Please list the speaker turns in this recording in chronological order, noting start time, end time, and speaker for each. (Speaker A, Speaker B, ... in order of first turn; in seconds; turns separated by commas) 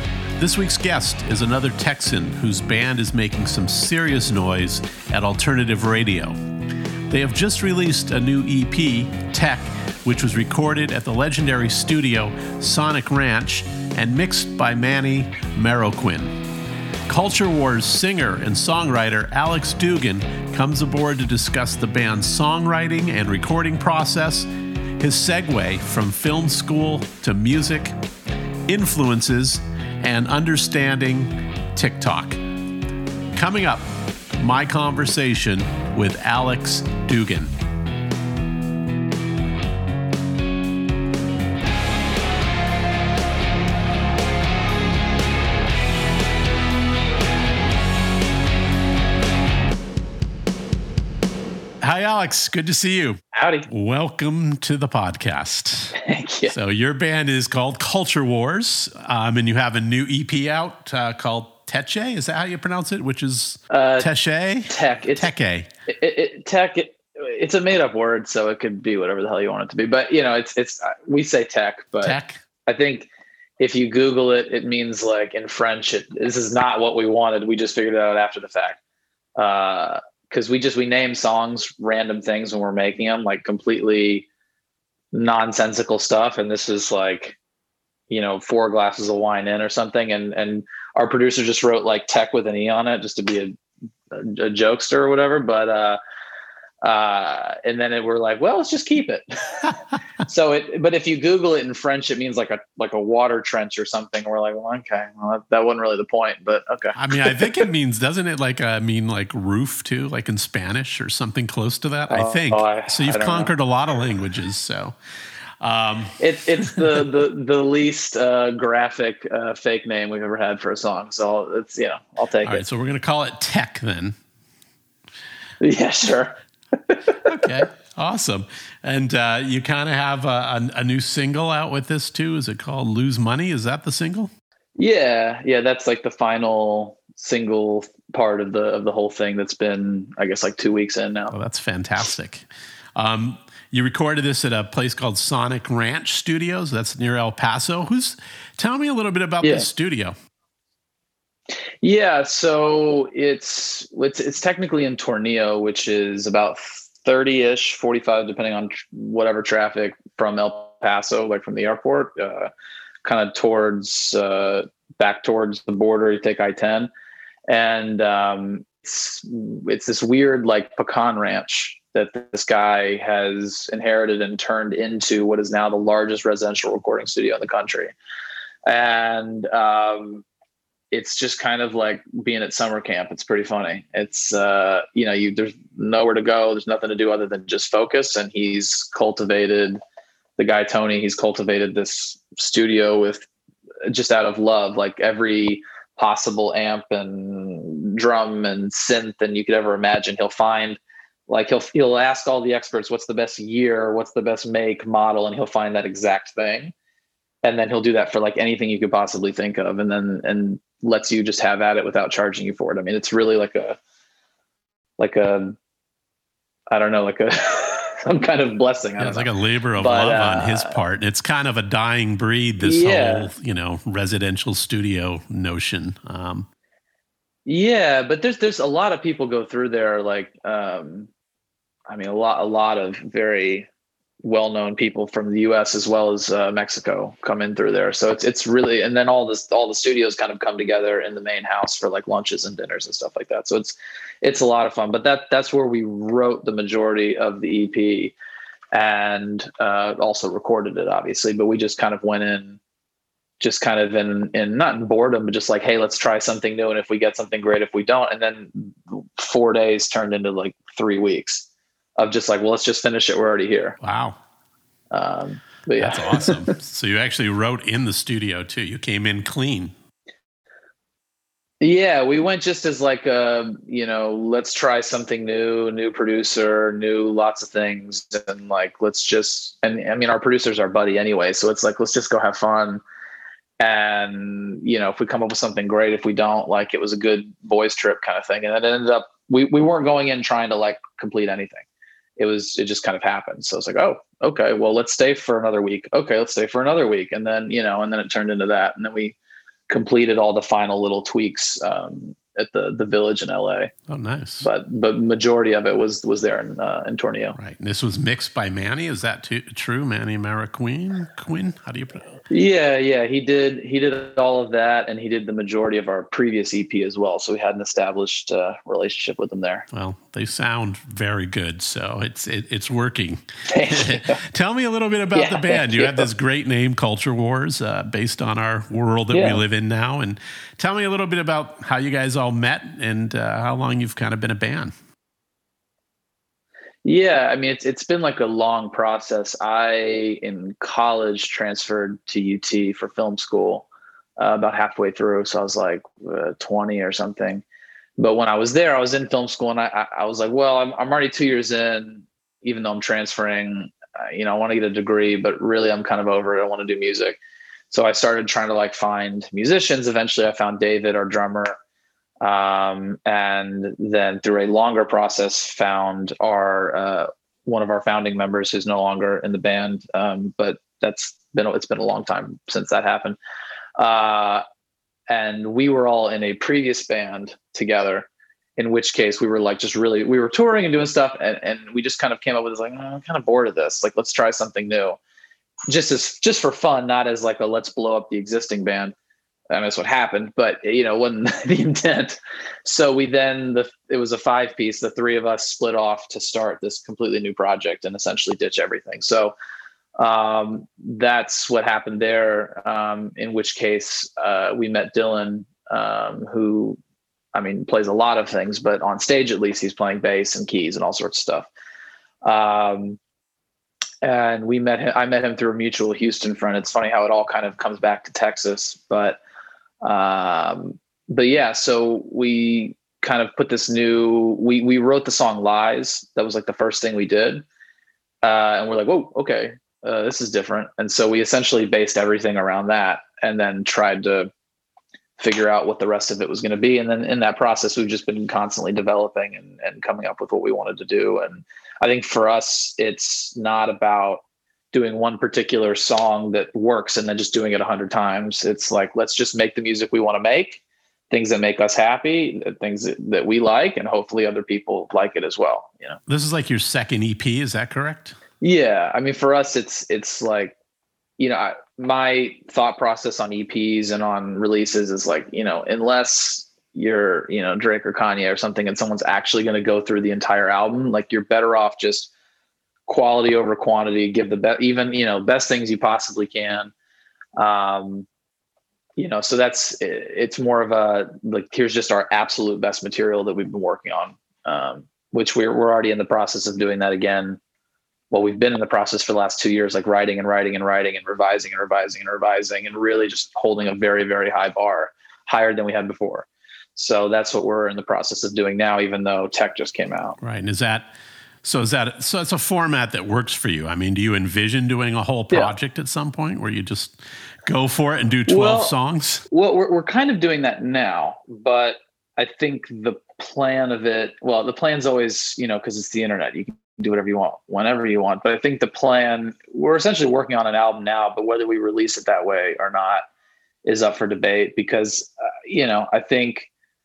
Speaker A: 0.4-6.3, Speaker A: 7.1-16.4, Speaker A: 17.1-27.9, Speaker A: 28.7-32.4, Speaker A: 33.3-37.5, Speaker A: 51.8-56.0, Speaker B: 53.3-53.7, Speaker B: 56.0-56.5, Speaker A: 56.5-65.7, Speaker B: 63.7-64.1, Speaker B: 64.7-65.3, Speaker B: 65.9-78.8, Speaker A: 72.0-72.4, Speaker B: 79.4-84.3, Speaker B: 85.1-87.4, Speaker B: 88.1-93.6, Speaker B: 94.1-96.0, Speaker B: 96.8-107.6, Speaker A: 106.9-114.9, Speaker B: 112.1-113.5, Speaker A: 115.6-117.0, Speaker B: 116.2-122.6, Speaker A: 122.4-124.2, Speaker B: 125.6-127.6, Speaker A: 127.2-134.3, Speaker B: 134.8-141.3, Speaker A: 141.3-150.1, Speaker B: 151.8-162.5, Speaker B: 163.0-166.9, Speaker B: 167.5-177.9, Speaker B: 178.7-180.2, Speaker B: 180.9-189.8, Speaker B: 190.4-193.3, Speaker B: 193.9-206.7, Speaker B: 207.4-213.8, Speaker B: 215.0-215.6, Speaker B: 216.7-220.8, Speaker A: 219.0-226.5, Speaker B: 222.6-223.3, Speaker B: 227.4-231.1, Speaker B: 231.9-233.7, Speaker B: 234.2-248.1, Speaker B: 248.7-252.6, Speaker B: 253.4-263.8, Speaker A: 263.8-264.2, Speaker B: 264.9-266.5, Speaker A: 265.8-269.7, Speaker B: 271.6-282.8, Speaker B: 283.6-291.6, Speaker B: 292.2-299.1, Speaker B: 299.7-303.7, Speaker A: 303.9-304.5, Speaker B: 304.4-307.4, Speaker A: 307.4-312.0, Speaker B: 312.3-319.6, Speaker A: 319.7-334.7, Speaker B: 323.5-324.2, Speaker B: 325.1-326.1, Speaker B: 329.1-329.4, Speaker B: 336.8-347.4, Speaker B: 348.0-357.2, Speaker B: 357.7-361.6, Speaker B: 362.2-373.2, Speaker B: 373.8-374.4, Speaker B: 375.1-385.0, Speaker B: 385.7-388.9, Speaker B: 389.5-399.3, Speaker B: 400.0-406.8, Speaker B: 407.3-411.5, Speaker B: 412.2-413.0, Speaker B: 414.0-419.2, Speaker B: 419.8-427.4, Speaker B: 428.2-434.3, Speaker B: 435.2-456.0, Speaker A: 456.1-458.1, Speaker B: 458.4-460.5, Speaker B: 461.2-472.1, Speaker B: 472.9-476.7, Speaker B: 477.4-478.1, Speaker B: 479.0-487.4, Speaker B: 488.1-500.2, Speaker A: 500.2-500.9, Speaker A: 501.4-509.2, Speaker B: 508.3-508.7, Speaker B: 509.3-523.0, Speaker B: 523.6-526.5